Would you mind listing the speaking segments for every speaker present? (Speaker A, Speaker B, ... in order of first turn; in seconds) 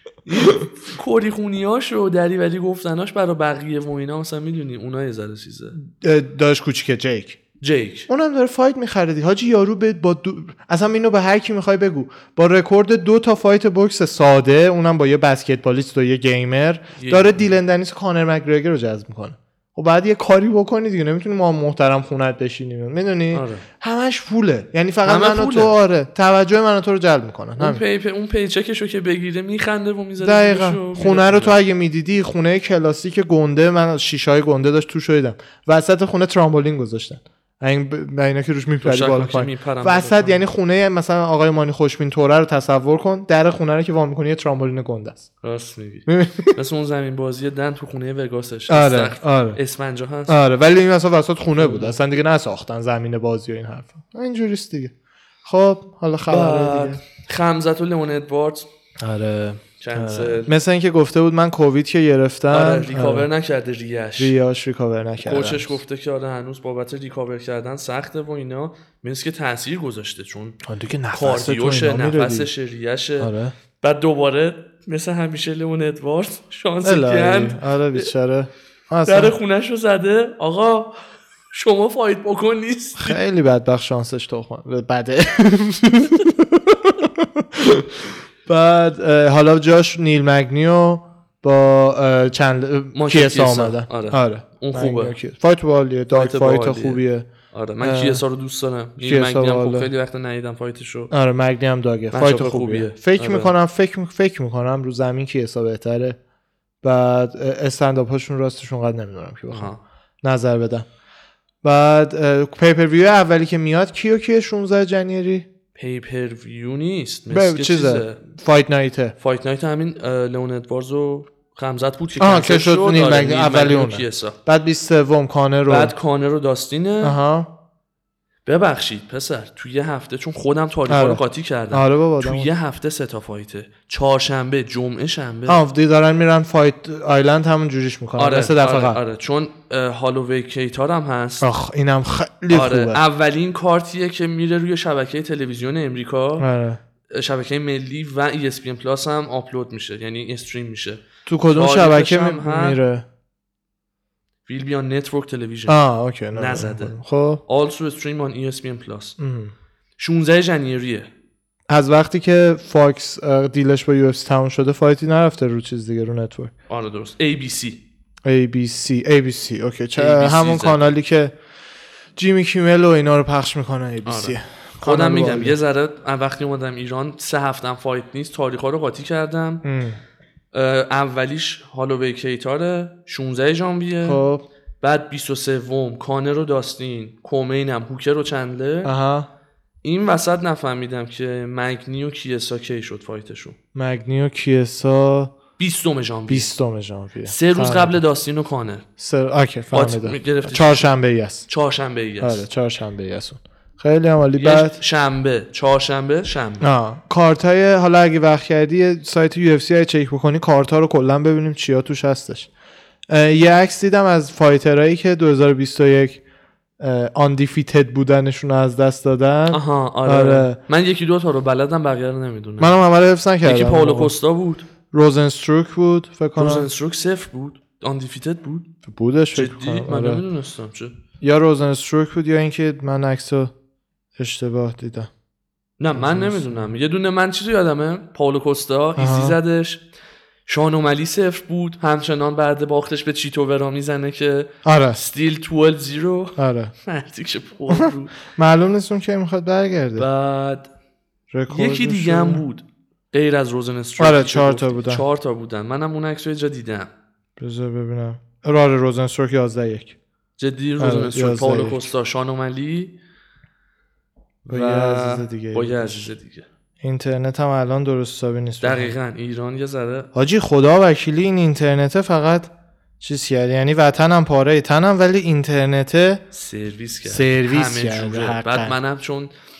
Speaker A: 0.2-5.8, 7.6-8.1, 17.0-17.5, 23.3-23.6, 25.1-25.8, 27.6-31.6, 38.8-40.4, 45.4-50.4, 51.6-52.0, 56.3-58.7, 59.8-60.5, 62.5-64.3, 65.2-70.6, 71.1-78.1, 79.1-81.0, 81.5-83.2, 92.9-95.2, 96.1-101.1, 102.1-103.5, 109.5-109.8, 115.8-118.2, 119.2-124.4, 125.7-127.2, 128.5-135.6, 138.2-141.5, 142.5-146.5, 147.1-152.8, 154.5-155.8, 156.3-159.2, 160.0-161.1, 166.7-167.8, 170.0-170.9, 174.1-179.7, 180.5-184.2, 184.8-188.9, 189.8-193.6, 195.6-196.5, 197.2-198.8, 199.7-200.9, 201.5-202.4, 204.4-206.7, 219.5-222.8, 223.4-224.7, 226.4-228.7, 229.3-230.9, 235.8-239.8, 240.5-248.2, 250.0-250.7, 251.5-256.9, 260.4-263.0, 264.4-266.5, 268.6-270.1, 276.3-279.3
Speaker B: 5.8-7.4, 8.1-27.8, 30.2-45.3, 46.1-46.6, 48.7-49.6, 50.3-54.9, 55.5-57.0, 59.0-63.3, 64.2-65.8, 70.7-72.5, 73.2-73.5, 76.8-79.3, 83.0-97.3, 97.8-98.2, 99.0-99.9, 101.1-106.2, 106.8-109.7, 110.2-110.9, 111.6-115.5, 117.3-119.2, 122.2-125.9, 127.0-127.5, 130.9-132.5, 135.5-139.0, 141.4-143.0, 146.4-146.8, 151.3-153.1, 155.7-157.4, 159.2-159.5, 161.7-166.5, 168.2-171.3, 172.2-175.6, 179.6-180.0, 184.0-184.5, 188.8-189.3, 193.8-195.3, 196.3-198.0, 199.0-201.5, 202.2-204.8, 206.6-212.5, 213.1-216.2, 216.8-220.6, 222.6-224.1, 224.9-226.7, 228.8-230.2, 231.2-233.5, 234.2-235.1, 235.9-236.7, 239.0-239.4, 244.7-245.0, 246.4-246.7, 247.7-250.1, 251.3-252.4, 254.0-255.0, 257.4-260.0, 260.8-261.8, 264.5-266.1, 266.8-268.9, 270.1-276.2, 277.1-278.8